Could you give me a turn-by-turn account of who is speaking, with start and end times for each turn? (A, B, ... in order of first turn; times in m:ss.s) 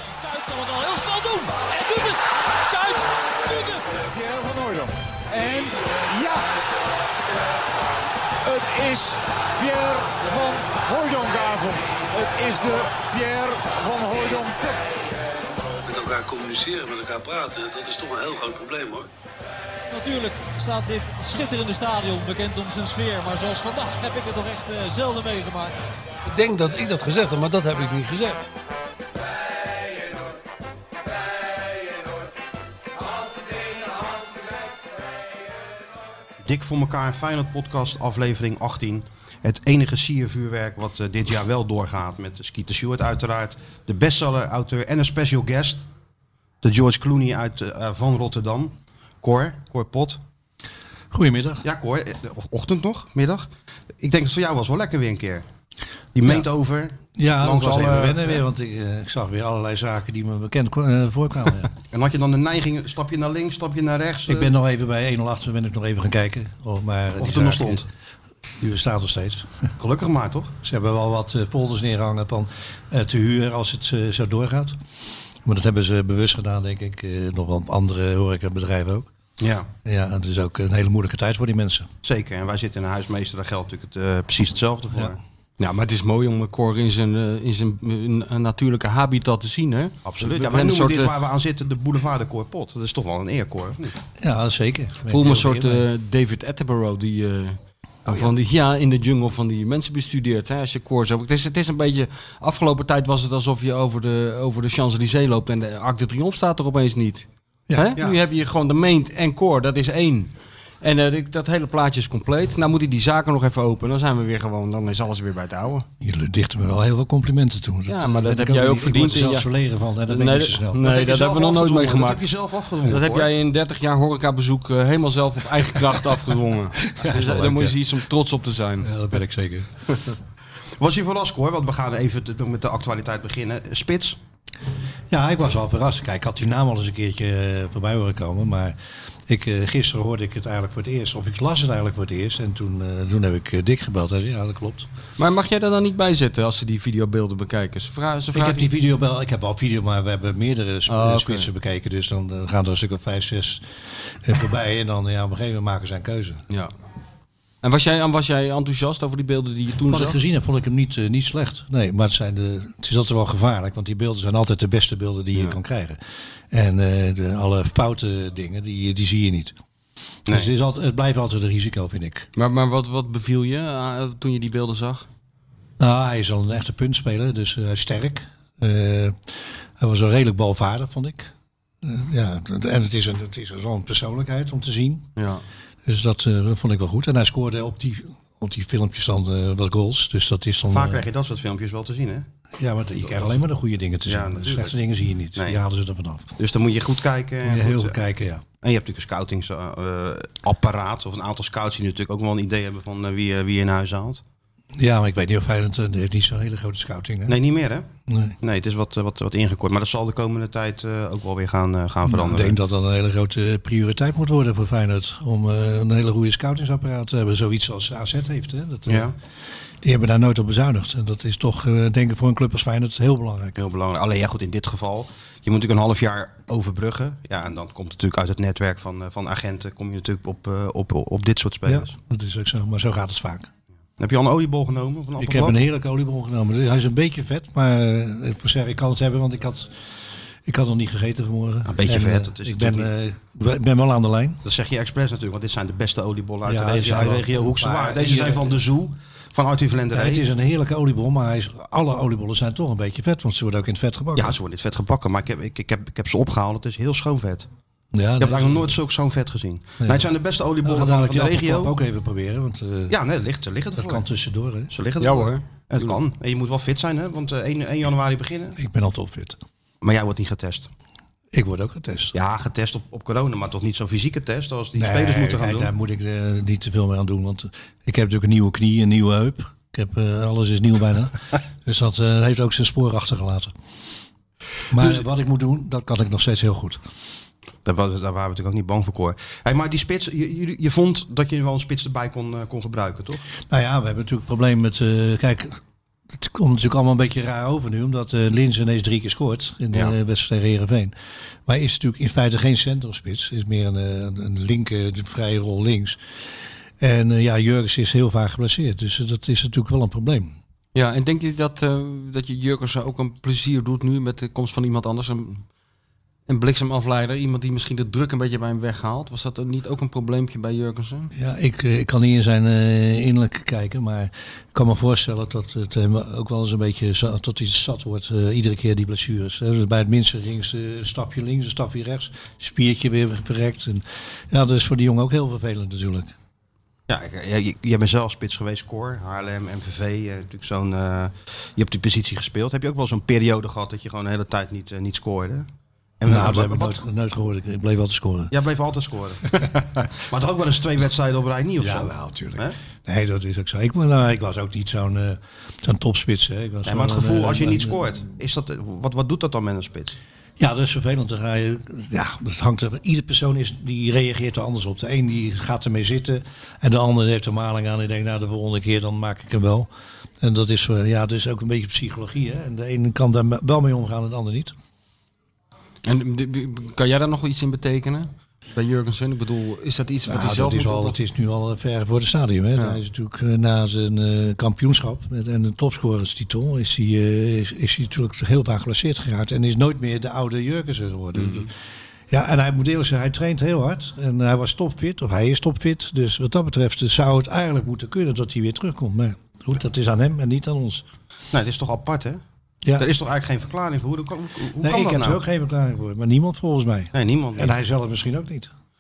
0:00.1-0:03.9 A
0:03.9-0:06.5 B
0:08.4-0:14.8 B
0:15.8-0:19.1 C
0:19.9-0:25.7 A
0:26.2-0:28.4 C
0:36.4-0:45.8 D
0:46.6-0:50.2 D
0:51.1-0:51.6 E
0:51.6-0:53.5 D
0:54.0-0:55.4 D
0:56.1-0:58.4 D
0:57.2-1:01.7 E
1:01.9-1:04.5 D
1:04.3-1:07.9 E
1:07.2-1:07.9 D
1:08.6-1:09.5 E
1:09.8-1:10.5 D
1:10.6-1:14.8 E
1:15.4-1:19.1 E
1:19.4-1:19.7 D
1:19.8-1:21.9 E
1:22.0-1:25.2 D
1:25.6-1:31.1 F
1:30.0-1:34.0 D
1:34.2-1:35.8 E
1:35.1-1:55.8 F
1:47.7-1:48.0 E
1:56.0-2:00.8 E
1:57.9-1:59.5 F
2:00.1-2:02.2 F
2:00.8-2:03.3 D
2:02.9-2:08.9 F
2:06.8-2:07.8 E
2:08.8-2:09.7 E
2:10.8-2:14.2 D
2:15.1-2:24.9 E
2:25.2-2:28.7 F
2:28.3-2:36.4 E
2:30.9-2:31.5 F
2:37.6-2:40.2 F
2:39.9-2:49.5 E
2:50.3-2:52.3 E
2:52.4-2:55.1 F
2:55.8-3:05.1 E
3:05.2-3:05.4 F
3:05.8-3:11.1 E
3:10.7-3:12.2 D
3:12.6-3:16.4 E
3:13.0-3:13.4 D
3:14.1-3:14.8 D
3:16.4-3:18.0 D
3:17.4-3:18.4 E
3:18.6-3:24.2 D
3:24.7-3:27.4 E
3:27.3-3:27.8 D
3:28.1-3:28.4 E
3:28.4-3:32.6 D
3:32.0-3:39.1 E
3:38.9-3:39.1 D
3:39.8-3:43.6 E
3:43.6-3:52.0 D
3:51.6-3:53.5 E
3:54.0-3:55.6 D
3:55.2-4:04.4 E
4:01.6-4:02.9 D
4:04.4-4:10.2 D
4:06.4-4:08.6 E
4:09.9-4:14.4 E
4:14.2-4:17.5 D
4:17.9-4:18.8 E
4:18.2-4:21.8 D
4:19.8-4:20.1 E
4:20.6-4:23.0 E
4:22.9-4:24.0 D
4:23.8-4:24.7 E
4:24.7-4:28.6 D
4:25.0-4:26.0 F
4:28.6-4:29.4 E
4:29.8-4:30.7 D
4:31.3-4:32.1 E
4:32.1-4:35.7 D
4:34.7-4:43.5 E
4:44.7-4:46.8 E
4:47.6-4:53.2 D
4:53.5-4:55.6 E
4:56.1-5:00.9 E
5:01.4-5:06.0 E
5:06.8-5:10.4 E
5:10.7-5:15.4 F
5:16.3-5:21.1 F
5:21.1-5:36.1 E
5:36.9-5:45.5 D
5:46.0-5:46.8 D
5:46.0-5:48.3 E
5:48.3-5:52.6 D
5:51.6-5:58.0 E
5:56.6-6:00.0 D
6:00.4-6:09.7 E
6:10.2-6:14.5 E
6:15.8-6:21.0 F
6:20.0-6:31.5 E
6:31.1-6:31.5 F
6:32.1-6:40.8 E
6:41.3-6:42.2 D
6:42.8-6:45.2 D
6:44.6-6:48.5 E
6:46.9-6:47.6 D